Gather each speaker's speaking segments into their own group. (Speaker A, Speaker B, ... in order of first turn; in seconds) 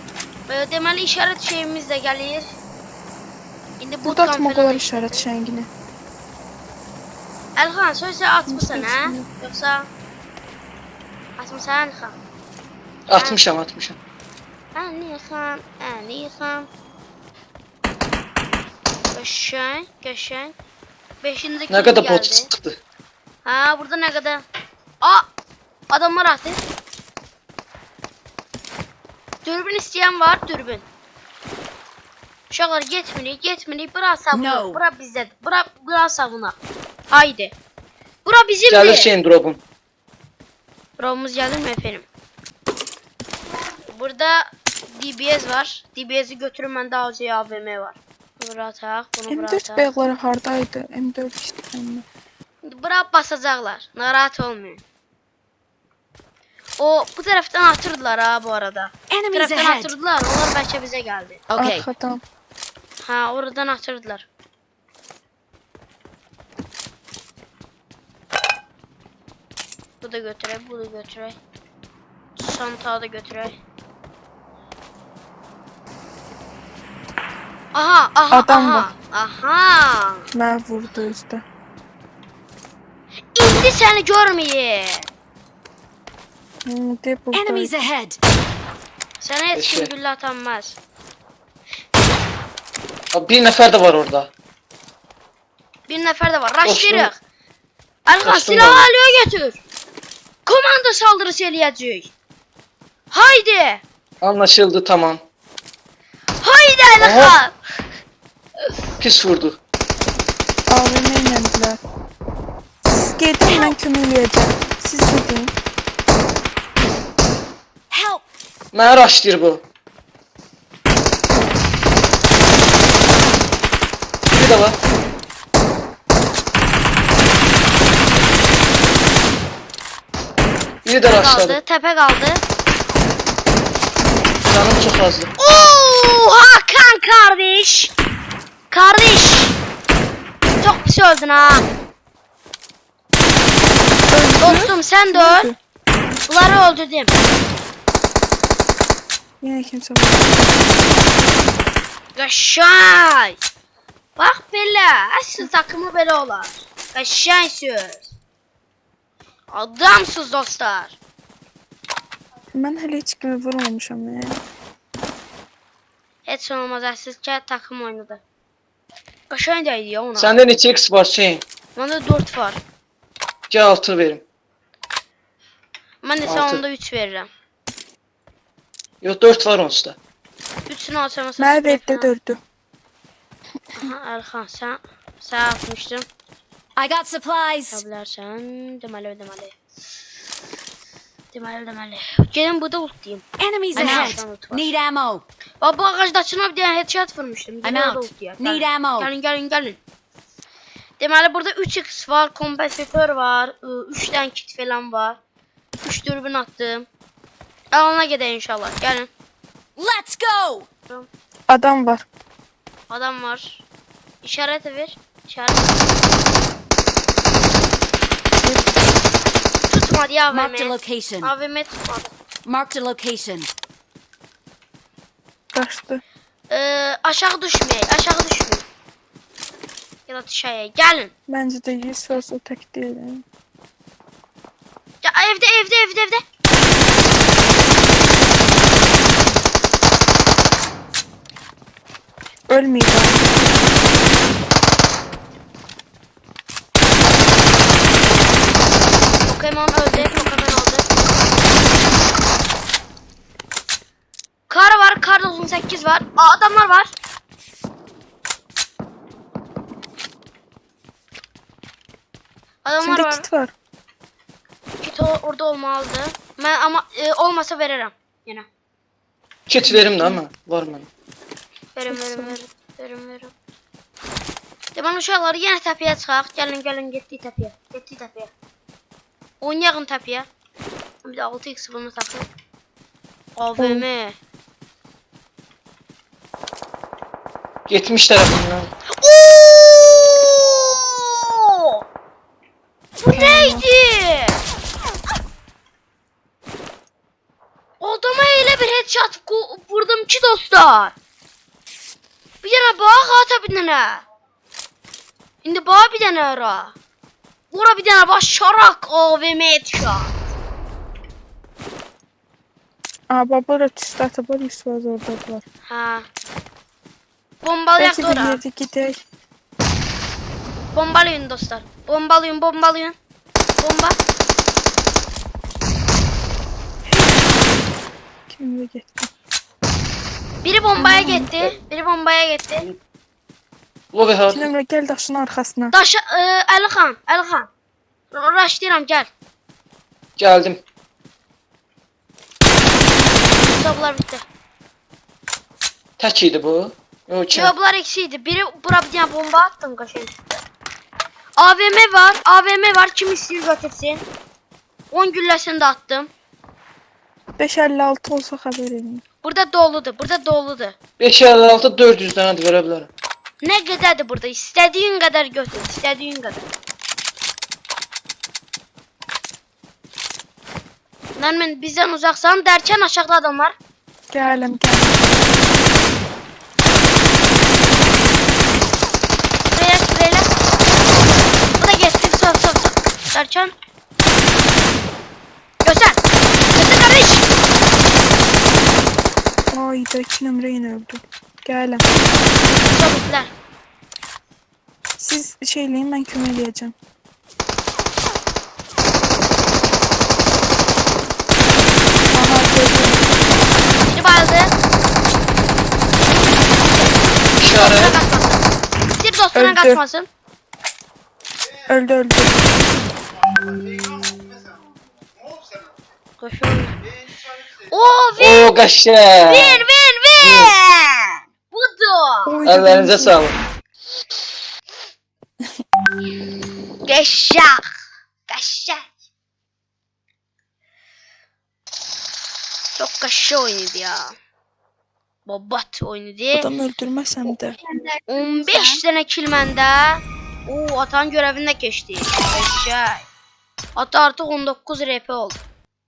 Speaker A: 0.5-2.6, 3.8-5.3, 7.6-9.9, 11.4-12.2, 13.2-13.4, 14.7-16.7, 19.1-20.5, 21.2-22.5, 23.4-24.4, 25.0-25.3, 25.9-26.6, 29.4-30.9, 32.5-36.6, 37.1-37.5, 38.2-39.1, 41.0-42.1, 43.9-49.9, 52.6-54.8, 56.8-61.4, 63.0-64.3, 70.0-71.4, 72.4-73.6, 77.7-80.3, 83.3-85.1, 89.2-90.8, 95.9-97.2, 98.1-99.6, 100.5-102.1, 103.1-103.8, 106.4-107.5, 131.1-132.4, 135.4-137.9, 138.7-139.6, 140.6-141.7, 144.4-145.5, 146.3-147.2, 152.2-153.4, 154.2-158.1, 159.5-161.0, 166.3-168.2, 169.3-170.4, 171.8-172.6, 176.0-177.3, 180.7-182.1, 183.8-186.1, 187.7-189.6, 191.3-194.8, 195.6-199.8, 201.0-205.2, 205.8-206.9, 207.7-209.1, 212.9-213.7, 214.2-215.9, 219.7-222.1, 226.5-228.7, 230.1-231.1, 235.0-236.2, 249.3-250.9, 254.5-256.9, 262.6-263.3, 264.8-268.5, 271.7-273.3, 274.8-278.3, 279.4-280.3, 281.0-282.3, 283.4-284.2, 288.9-291.8, 293.0-294.4, 297.8-300.9, 302.4-304.1, 305.4-306.8, 307.5-310.1, 315.7-316.1, 317.4-318.4, 320.7-323.0, 323.6-324.0, 330.4-332.7, 335.7-337.5, 338.1-339.1, 343.4-344.2, 347.3-350.4, 351.4-354.0, 354.9-356.1, 359.2-360.8, 363.4-366.5, 371.2-373.6, 379.5-380.3, 381.6-383.5, 385.6-386.0, 386.5-387.3, 392.4-393.3, 403.9-404.5, 406.6-410.1, 416.2-416.8, 417.7-418.5, 419.3-422.4, 426.9-427.7, 428.3-428.9, 432.8-434.1, 435.3-436.5, 438.1-443.1, 443.8-445.4
Speaker B: 4.0-5.7, 8.5-9.3, 49.3-52.0, 61.6-62.2, 78.3-78.9, 80.3-81.4, 86.7-87.7, 110.7-111.8, 112.8-115.5, 144.1-145.6, 149.4-150.8, 162.5-164.4, 181.4-182.4, 211.5-212.1, 218.4-218.8, 225.5-226.0, 231.3-233.2, 242.5-243.7, 249.9-250.3, 262.8-263.5, 269.7-270.2, 271.9-272.4, 283.6-283.9, 293.1-293.6, 313.1-315.4, 317.8-319.0, 328.3-329.1, 330.8-331.3, 334.3-335.8, 357.4-359.0, 374.1-375.4, 389.5-391.9, 395.0-396.7, 402.1-403.2, 409.4-409.8, 411.7-412.5, 422.3-423.2, 436.3-437.6
Speaker C: 13.1-14.0, 21.7-22.8, 38.7-39.6, 89.5-89.9, 93.1-94.3, 96.6-97.1, 98.2-98.9, 104.2-105.2, 107.0-107.4, 109.0-109.6, 118.7-119.6, 124.3-124.8, 130.8-131.6, 134.4-135.3, 170.2-171.4, 173.5-174.2, 176.2-176.6, 179.0-180.0, 269.5-270.9, 287.7-288.7, 333.9-334.5, 340.2-340.6, 346.0-347.5, 361.0-362.9, 407.4-408.0, 418.2-420.6, 422.5-423.4
Speaker D: 34.3-34.8, 59.1-60.0, 61.5-61.9, 87.3-88.2, 113.5-113.8, 117.9-118.2, 186.8-187.8, 193.4-195.2, 197.6-199.1, 209.8-210.7, 220.3-221.3, 222.4-223.5